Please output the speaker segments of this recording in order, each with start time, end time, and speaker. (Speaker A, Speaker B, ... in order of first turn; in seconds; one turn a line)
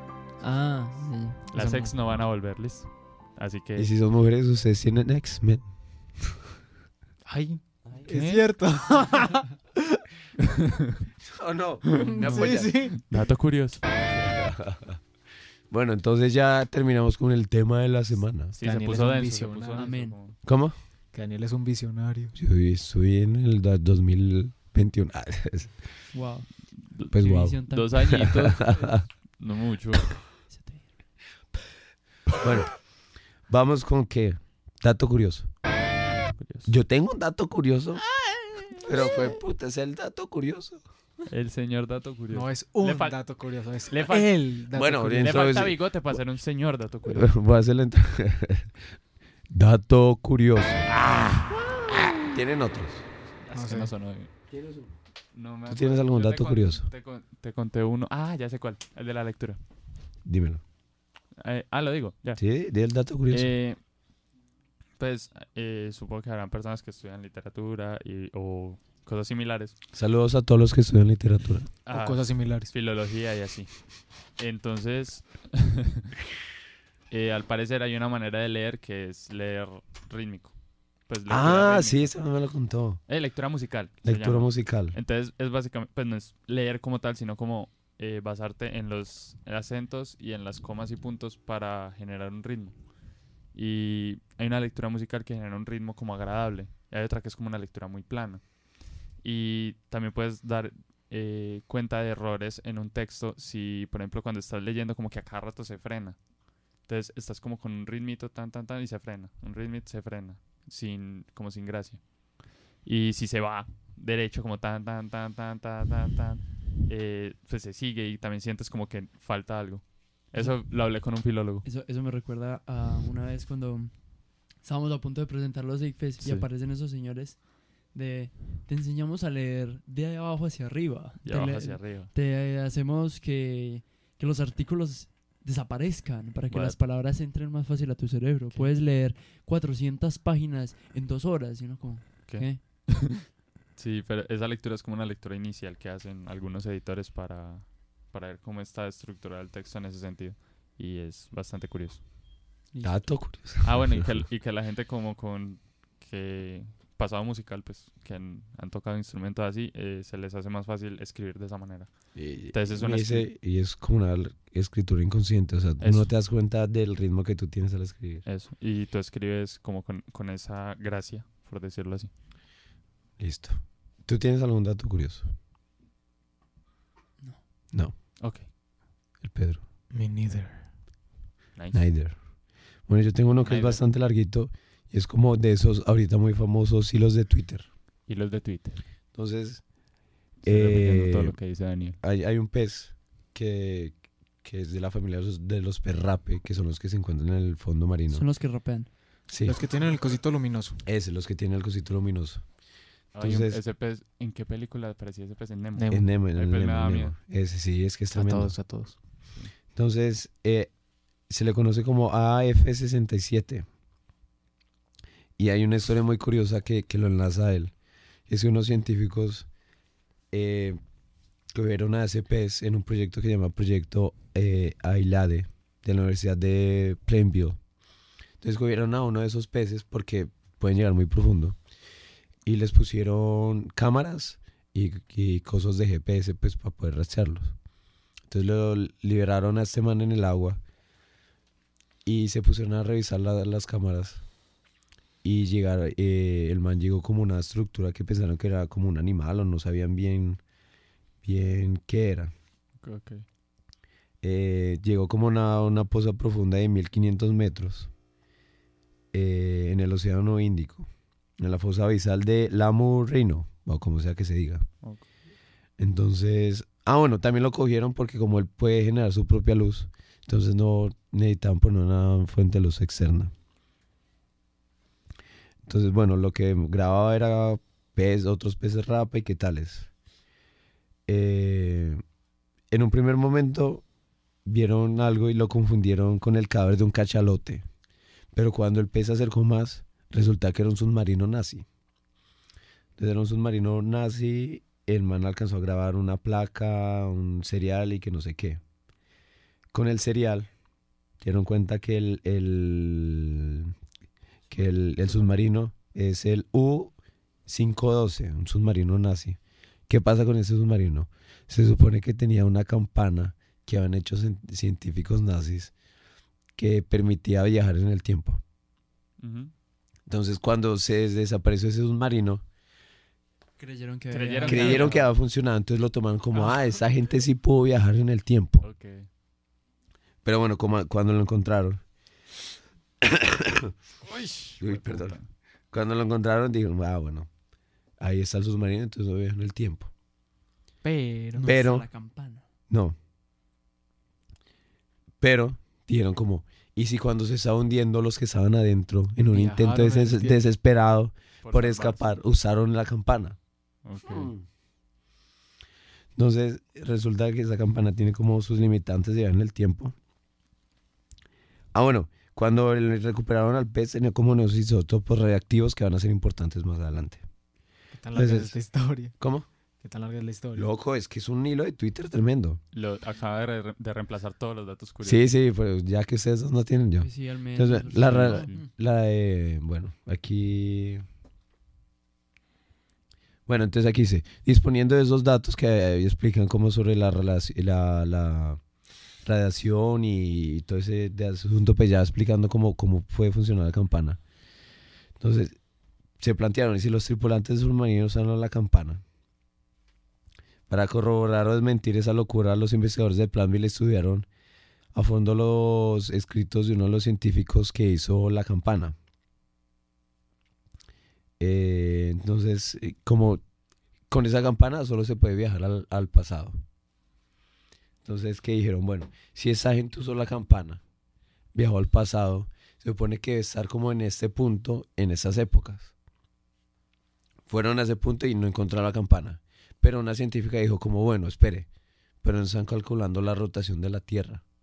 Speaker A: 0.4-1.4
Speaker B: 1.5-3.9
Speaker C: 1.5-1.9
Speaker D: 3.8-5.7
Speaker C: 7.2-9.5
Speaker B: 8.1-8.6
Speaker B: 10.4-10.9
Speaker D: 11.2-12.9
Speaker C: 12.0-12.9
Speaker A: 12.1-12.4
Speaker B: 12.9-13.8
Speaker D: 14.0-15.0
Speaker D: 15.7-18.5
Speaker B: 18.5-20.4
Speaker C: 18.6-19.9
Speaker A: 19.8-20.1
Speaker D: 20.4-20.7
Speaker C: 21.1-22.3
Speaker D: 22.3-25.8
Speaker A: 26.1-26.5
Speaker B: 26.8-30.2
Speaker D: 27.1-29.0
Speaker A: 27.1-28.2
Speaker A: 30.5-30.9
Speaker D: 32.4-32.8
Speaker D: 33.5-35.5
Speaker B: 36.3-36.7
Speaker D: 36.7-38.1
Speaker D: 38.7-40.8
Speaker B: 41.3-44.5
Speaker C: 42.3-45.5
Speaker D: 44.7-46.2
Speaker B: 45.1-47.4
Speaker D: 47.1-48.7
Speaker D: 49.5-51.4
Speaker B: 50.9-51.5
Speaker D: 52.2-53.0
Speaker B: 53.4-54.3
Speaker C: 53.5-53.9
Speaker D: 54.5-54.9
Speaker B: 55.3-59.6
Speaker D: 55.7-56.9
Speaker D: 60.2-60.6
Speaker B: 61.4-62.4
Speaker D: 62.4-63.5
Speaker B: 63.3-63.8
Speaker B: 65.0-69.7
Speaker D: 69.9-71.7
Speaker B: 71.8-76.0
Speaker C: 71.9-72.7
Speaker B: 77.1-80.5
Speaker B: 81.0-82.1
Speaker D: 81.3-83.0
Speaker B: 83.1-92.8
Speaker D: 84.0-85.0
Speaker B: 93.5-98.5
Speaker B: 99.2-106.2
Speaker B: 106.8-112.0
Speaker B: 112.8-121.6
Speaker A: 120.3-120.7
Speaker A: 121.6-142.6
Speaker B: 126.2-126.5
Speaker B: 131.2-132.1
Speaker B: 136.5-136.8
Speaker B: 142.3-152.0
Speaker A: 152.7-153.1
Speaker D: 152.8-154.2
Speaker B: 153.6-163.3
Speaker D: 162.1-168.2
Speaker B: 165.8-166.1
Speaker B: 168.2-172.1
Speaker D: 173.2-175.3
Speaker B: 178.2-178.5
Speaker D: 179.2-179.6
Speaker C: 179.9-180.7
Speaker B: 181.6-181.9
Speaker D: 181.7-182.2
Speaker D: 182.8-187.7
Speaker B: 183.4-183.8
Speaker B: 188.1-188.8
Speaker D: 189.1-189.6
Speaker D: 190.4-191.4
Speaker B: 190.4-192.0
Speaker D: 192.0-198.3
Speaker A: 198.1-198.9
Speaker D: 199.3-199.6
Speaker C: 199.4-200.8
Speaker D: 200.8-202.4
Speaker B: 203.1-207.1
Speaker D: 203.2-203.6
Speaker C: 205.8-206.1
Speaker D: 205.9-208.6
Speaker C: 208.1-208.9
Speaker D: 209.7-210.7
Speaker D: 211.3-213.7
Speaker D: 215.4-217.7
Speaker D: 218.3-219.5
Speaker D: 220.3-220.8
Speaker D: 221.5-227.6
Speaker D: 228.4-231.6
Speaker D: 232.4-237.5
Speaker D: 238.3-240.6
Speaker D: 242.0-244.2
Speaker D: 245.2-250.4
Speaker D: 251.2-252.3
Speaker B: 252.8-253.2
Speaker D: 254.2-257.9
Speaker D: 259.1-264.7
Speaker D: 265.8-273.3
Speaker D: 275.6-279.9
Speaker D: 281.1-282.0
Speaker D: 282.7-283.8
Speaker D: 284.4-287.6
Speaker D: 288.3-291.6
Speaker D: 293.0-298.6
Speaker D: 299.7-300.5
Speaker D: 301.2-303.7
Speaker D: 304.5-306.9
Speaker D: 307.5-309.4
Speaker D: 309.9-315.7
Speaker D: 316.6-318.4
Speaker B: 319.2-319.5
Speaker D: 320.1-322.4
Speaker A: 323.6-325.0
Speaker B: 324.1-325.0
Speaker D: 324.5-328.6
Speaker B: 328.6-329.1
Speaker D: 330.2-331.8
Speaker D: 333.0-333.7
Speaker B: 334.1-335.3
Speaker D: 334.6-335.2
Speaker D: 335.7-337.3
Speaker D: 338.0-339.9
Speaker C: 340.8-341.5
Speaker A: 341.3-342.4
Speaker D: 341.4-341.9
Speaker D: 342.7-342.9
Speaker D: 345.2-353.4
Speaker C: 349.3-350.4
Speaker B: 351.4-352.1
Speaker B: 353.8-354.3
Speaker D: 354.0-354.4
Speaker D: 356.1-359.9
Speaker D: 361.7-367.2
Speaker C: 367.9-369.1
Speaker D: 368.1-368.5
Speaker D: 369.2-369.4
Speaker C: 369.8-370.7
Speaker D: 370.5-372.6
Speaker B: 372.7-375.3
Speaker D: 375.0-381.0
Speaker A: 377.0-378.6
Speaker B: 377.9-378.6
Speaker D: 383.5-388.6
Speaker D: 389.2-394.2
Speaker D: 395.2-395.6
Speaker D: 396.2-399.0
Speaker D: 400.7-404.3
Speaker D: 404.9-408.9
Speaker D: 411.4-413.4
Speaker D: 414.1-416.6
Speaker D: 418.0-420.8
Speaker D: 421.5-425.9
Speaker D: 427.5-431.7
Speaker D: 432.2-434.4